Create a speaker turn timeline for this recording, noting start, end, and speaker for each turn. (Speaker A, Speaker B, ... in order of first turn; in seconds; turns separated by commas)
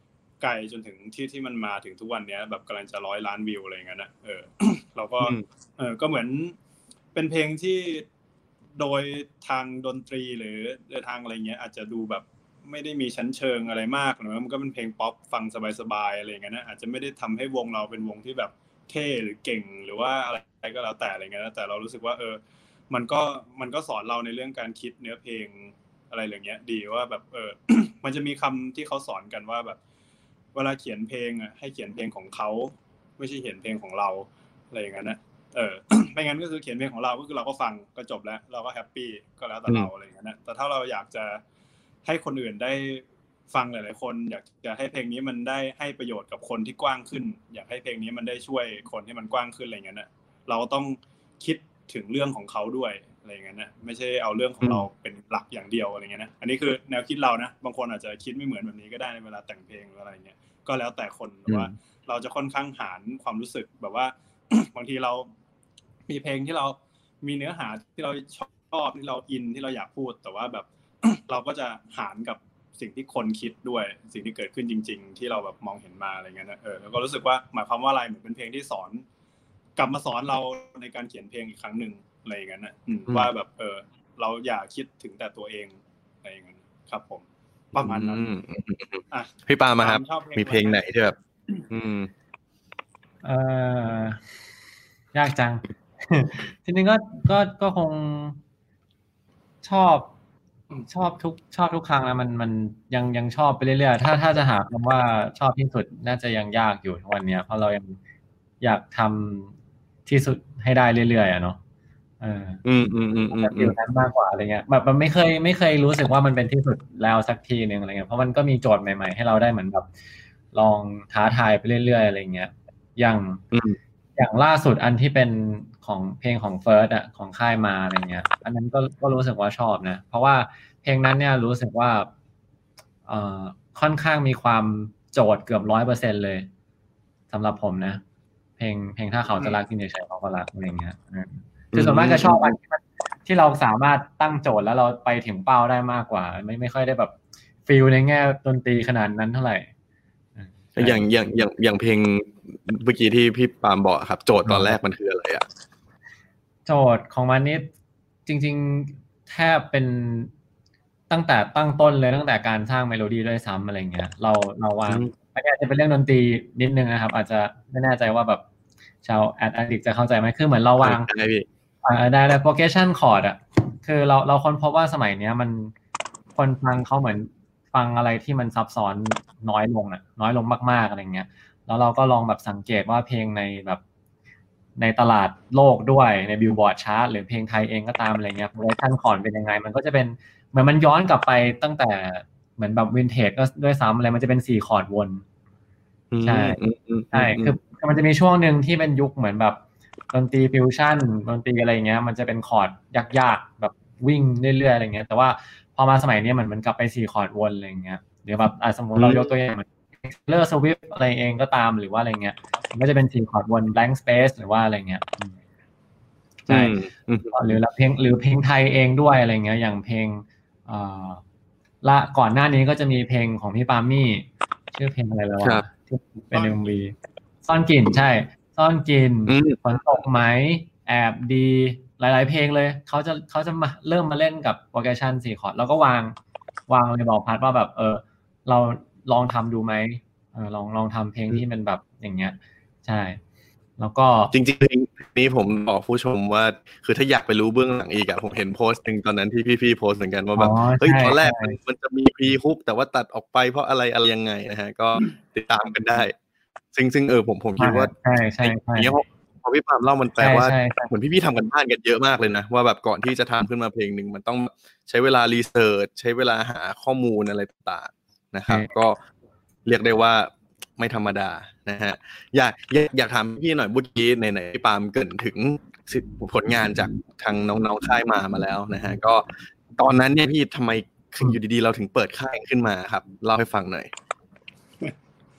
Speaker A: 0.4-6.5, Speaker A: 7.2-8.1, Speaker A: 8.8-29.8, Speaker A: 30.5-41.4, Speaker A: 42.0-65.3, Speaker A: 66.1-79.0, Speaker A: 79.8-88.3, Speaker B: 87.8-91.2, Speaker A: 89.1-90.8, Speaker B: 91.7-92.1, Speaker C: 93.2-94.2, Speaker C: 95.1-98.4, Speaker C: 99.6-100.1, Speaker C: 100.9-108.0, Speaker C: 108.6-109.5, Speaker C: 110.0-111.6, Speaker C: 112.2-112.6, Speaker B: 112.7-113.8, Speaker C: 113.3-119.9, Speaker C: 120.5-123.4, Speaker B: 123.5-123.8, Speaker C: 124.2-132.1, Speaker C: 133.1-136.5, Speaker C: 137.3-138.0, Speaker C: 138.6-147.2, Speaker B: 141.7-142.6, Speaker C: 147.7-149.7, Speaker C: 150.4-151.1, Speaker B: 150.8-155.4, Speaker C: 154.4-154.8, Speaker C: 156.7-157.7, Speaker C: 158.2-160.3, Speaker C: 161.1-168.4, Speaker C: 169.0-171.1, Speaker B: 170.8-171.5, Speaker C: 171.8-175.7, Speaker C: 176.3-183.8, Speaker C: 184.8-195.2, Speaker B: 196.1-197.6, Speaker C: 196.2-196.6, Speaker C: 197.1-199.6, Speaker C: 200.1-215.3, Speaker B: 209.0-209.3, Speaker C: 216.5-216.8, Speaker B: 216.5-217.3, Speaker C: 217.3-221.2, Speaker C: 221.8-226.9, Speaker A: 226.3-226.8, Speaker C: 227.4-236.2, Speaker B: 229.3-229.6, Speaker C: 236.7-243.2, Speaker C: 243.8-244.3, Speaker B: 244.3-256.1, Speaker C: 250.3-251.6, Speaker B: 256.7-269.0, Speaker C: 257.6-259.0, Speaker C: 260.2-260.9, Speaker B: 269.6-283.9